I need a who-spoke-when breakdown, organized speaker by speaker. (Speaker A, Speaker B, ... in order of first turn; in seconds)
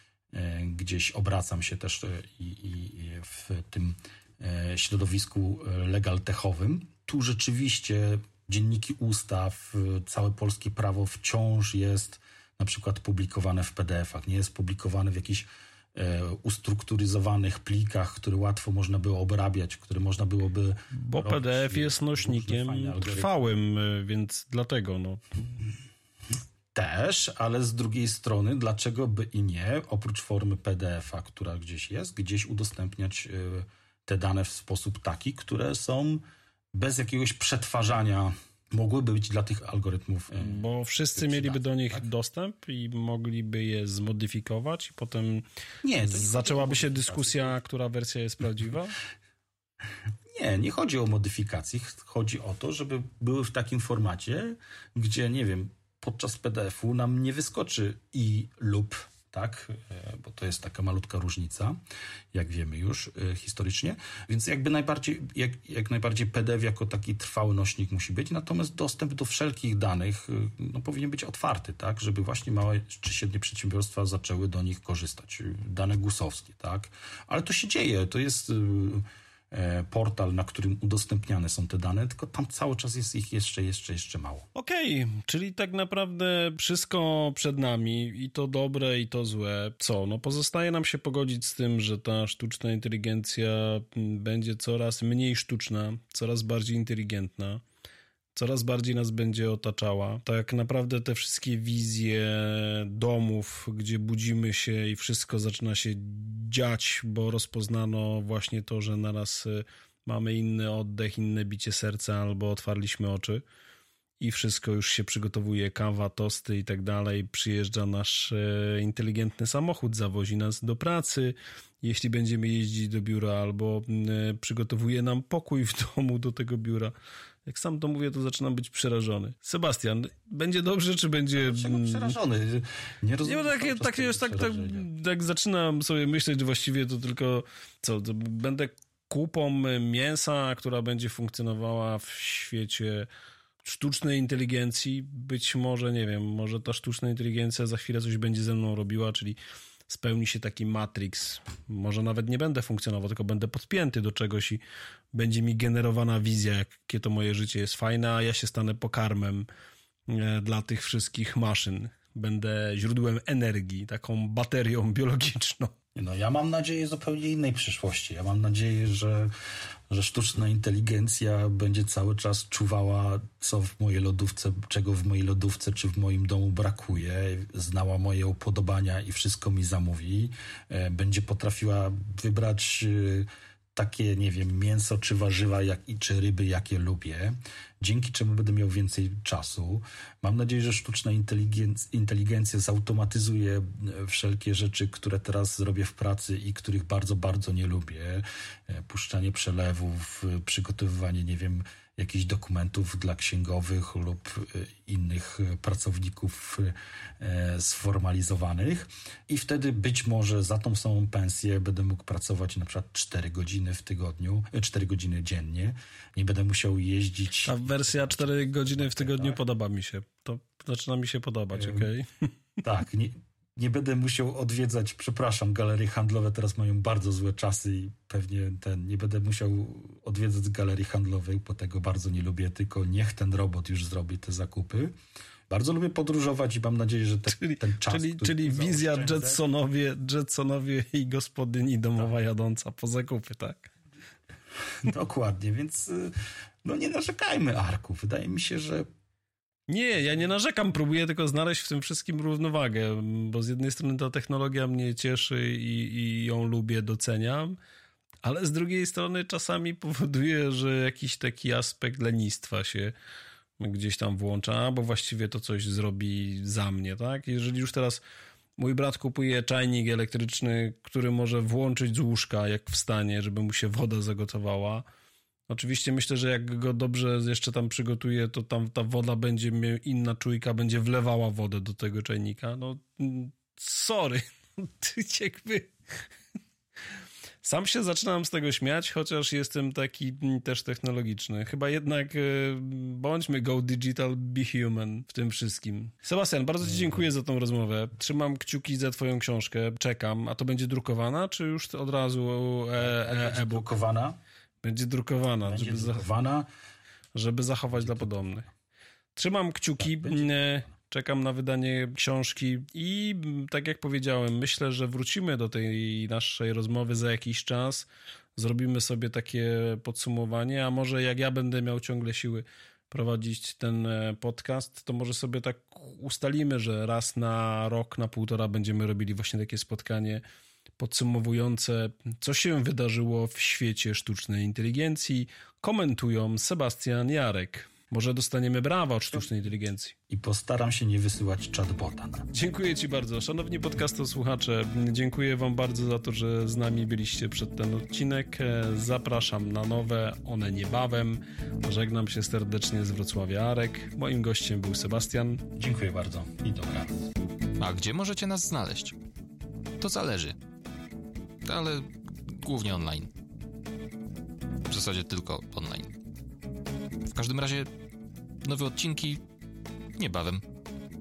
Speaker A: 0.3-23.3, 26.7-36.2, 36.7-42.1, 45.8-47.6, 50.3-61.8, 62.3-84.5, 131.4-134.9, 165.9-169.3, 169.9-219.4, 221.5-221.9, 222.6-234.9, 235.5-239.4, 244.8-248.9, 296.6-297.1, 302.8-304.2, 305.4-306.5, 307.7-308.5, 309.8-310.5, 339.0-339.3, 340.1-342.3, 355.6-357.1
Speaker B: 20.9-25.6, 40.4-45.4, 46.0-48.9, 84.5-97.6, 98.3-113.4, 114.2-126.9, 127.5-132.2, 133.2-143.1, 143.6-154.6, 155.1-159.4, 160.1-165.7, 217.4-222.3, 237.4-243.7, 249.7-257.6, 258.2-262.9, 263.6-268.0, 268.6-274.8, 275.5-285.7, 287.4-303.7, 304.6-306.1, 307.1-308.5, 309.1-330.2, 330.8-339.9, 342.3-355.4
Speaker C: 357.6-358.9, 359.8-360.4, 361.4-363.1, 364.7-365.9, 367.1-367.7, 368.4-369.2, 370.0-370.4